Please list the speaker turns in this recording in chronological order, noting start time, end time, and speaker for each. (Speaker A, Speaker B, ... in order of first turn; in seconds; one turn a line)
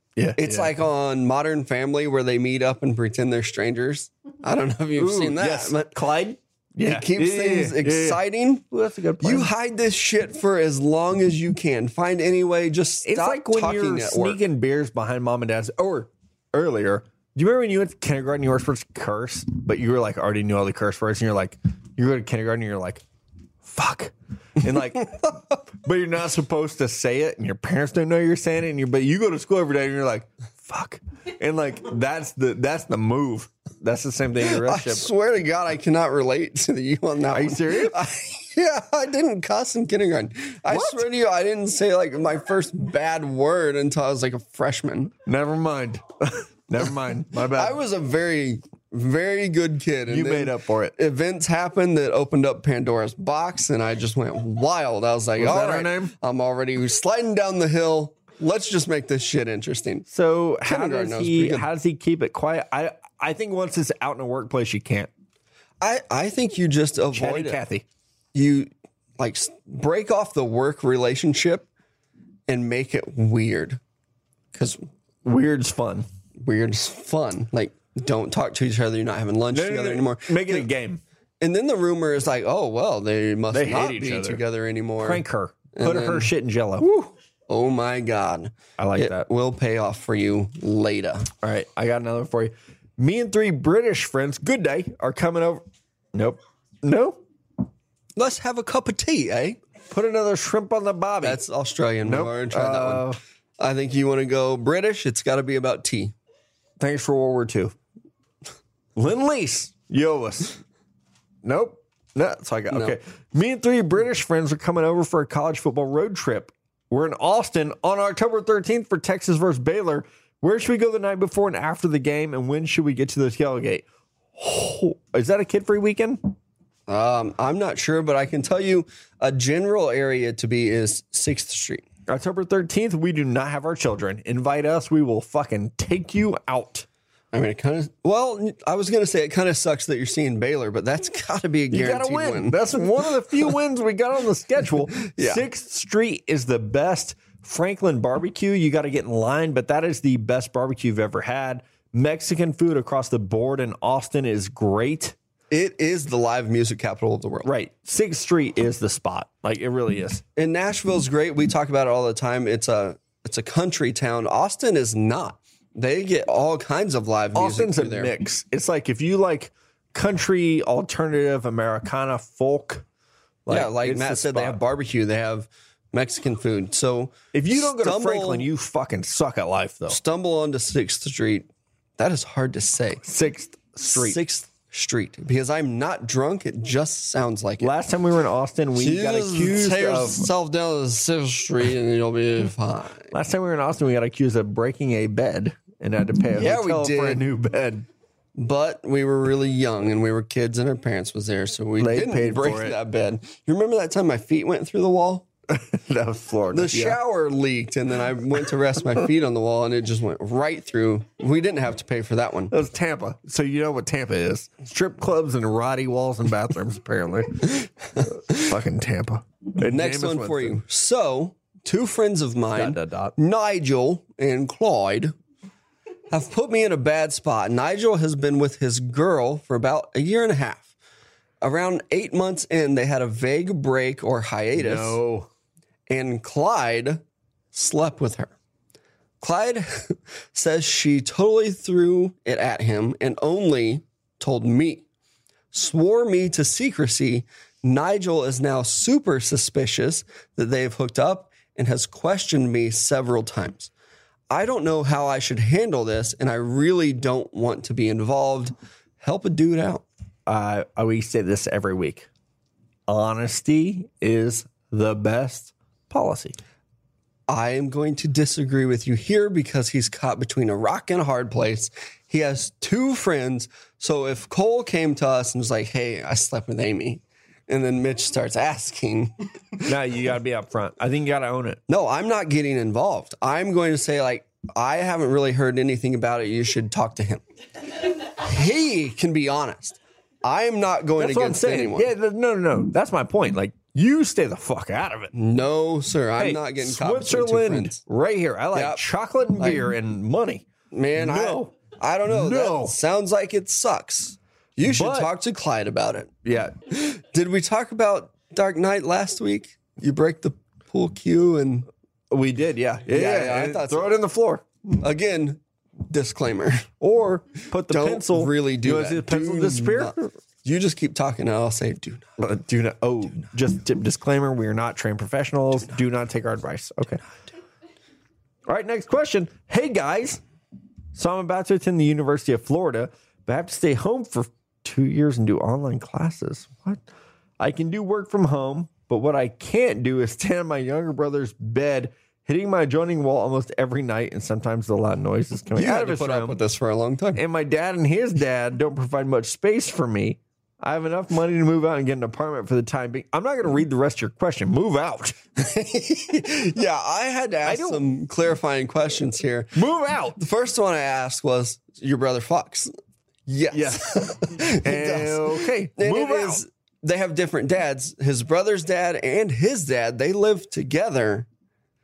Speaker A: 0.2-0.7
Speaker B: 0.4-5.9
Speaker A: 5.0-9.5
Speaker B: 6.8-8.7
Speaker B: 9.2-14.4
Speaker A: 13.0-23.0
Speaker A: 23.6-35.1
Speaker B: 34.4-45.1
Speaker A: 37.3-38.0
Speaker A: 40.7-41.0
Speaker A: 45.3-47.8
Speaker B: 47.5-60.1
Speaker A: 50.1-51.0
Speaker A: 55.4-56.1
Speaker A: 60.1-65.1
Speaker B: 60.6-61.7
Speaker B: 65.8-67.6
Speaker A: 67.1-67.8
Speaker B: 68.3-71.7
Speaker B: 72.5-73.8
Speaker B: 74.5-74.8
Speaker A: 75.2-76.1
Speaker B: 76.4-80.7
Speaker A: 79.5-81.0
Speaker B: 81.4-85.2
Speaker A: 83.5-84.4
Speaker A: 85.0-87.1
Speaker B: 85.7-86.3
Speaker B: 87.5-91.3
Speaker A: 88.8-89.3
Speaker A: 91.4-95.6
Speaker A: 96.1-97.2
Speaker B: 98.2-99.6
Speaker A: 99.9-101.4
Speaker B: 101.2-103.1
Speaker A: 102.0-103.2
Speaker B: 103.6-106.2
Speaker A: 106.8-107.8
Speaker A: 109.0-110.6
Speaker A: 111.4-123.8
Speaker B: 112.7-113.0
Speaker A: 124.4-126.3
Speaker B: 126.9-131.9
Speaker A: 132.1-136.9
Speaker B: 137.3-142.6
Speaker A: 141.7-155.2
Speaker B: 145.0-145.5
Speaker B: 155.5-157.5
Speaker A: 157.4-160.2
Speaker B: 160.4-168.1
Speaker A: 167.3-172.8
Speaker A: 173.5-174.6
Speaker B: 173.5-178.5
Speaker A: 177.3-180.0
Speaker B: 179.9-183.0
Speaker A: 183.0-184.2
Speaker B: 183.8-187.7
Speaker A: 187.6-190.3
Speaker B: 188.8-193.1
Speaker A: 193.1-197.9
Speaker B: 196.4-197.2
Speaker B: 198.4-205.3
Speaker A: 201.8-202.8
Speaker A: 205.5-207.0
Speaker B: 206.5-212.5
Speaker A: 212.5-220.6
Speaker B: 219.6-225.1
Speaker A: 222.5-223.1
Speaker B: 226.1-230.7
Speaker B: 231.4-235.0
Speaker A: 234.6-235.3
Speaker B: 235.9-238.3
Speaker B: 239.2-244.9
Speaker B: 245.5-253.7
Speaker B: 254.3-259.9
Speaker A: 260.3-262.1
Speaker A: 262.9-266.4
Speaker B: 267.3-279.7
Speaker A: 279.7-281.6
Speaker B: 281.7-287.2
Speaker B: 288.1-291.9
Speaker A: 291.0-295.1
Speaker B: 295.1-297.8
Speaker A: 296.2-301.5
Speaker B: 298.5-298.8
Speaker B: 299.4-299.6
Speaker B: 300.7-306.1
Speaker A: 302.1-302.8
Speaker A: 304.6-305.1
Speaker A: 306.2-306.5
Speaker B: 306.7-311.7
Speaker A: 312.1-314.5
Speaker B: 312.9-314.0
Speaker B: 314.8-316.7
Speaker A: 316.8-320.1
Speaker B: 317.7-322.1
Speaker A: 322.2-327.0
Speaker A: 328.5-330.2
Speaker A: 330.9-336.8
Speaker A: 337.4-346.4
Speaker B: 345.6-347.2
Speaker A: 347.1-355.2
Speaker B: 355.4-359.6
Speaker A: 357.4-357.8
Speaker A: 359.6-360.2
Speaker B: 360.1-362.7
Speaker B: 363.3-371.3
Speaker A: 363.5-366.4